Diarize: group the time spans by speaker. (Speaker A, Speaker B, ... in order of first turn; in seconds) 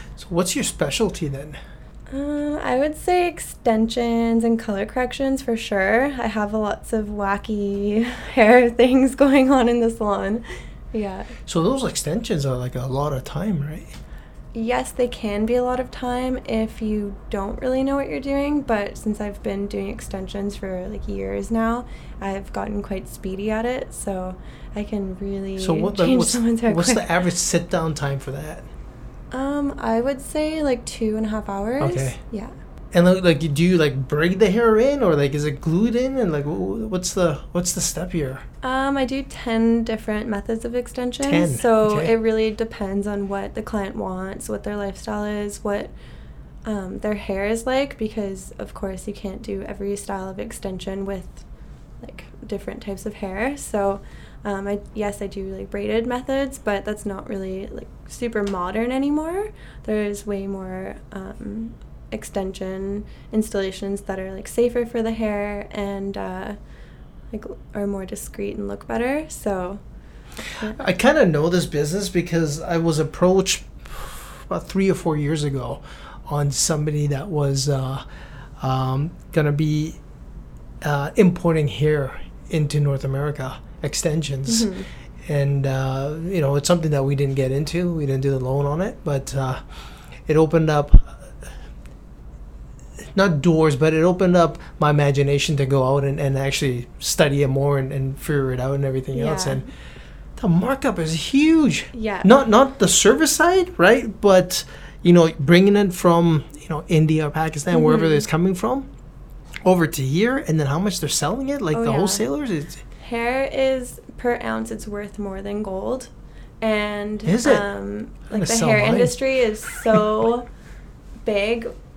Speaker A: 0.2-1.6, 11.5-13.9, 25.6-28.6, 31.8-32.2, 32.9-38.4, 41.2-42.1, 70.6-78.0, 78.6-80.0, 80.8-91.5, 93.0-99.7, 100.3-108.9, 109.6-112.8, 117.2-117.7, 118.3-120.0
Speaker B: 2.1-11.3, 14.5-27.1, 29.3-32.5, 38.6-45.9, 46.6-51.4, 52.0-66.6, 67.3-69.8, 70.5-70.8, 84.5-84.9, 99.1-99.6, 101.9-102.3, 107.7-108.2, 111.7-112.2, 113.0-120.5, 121.2-121.7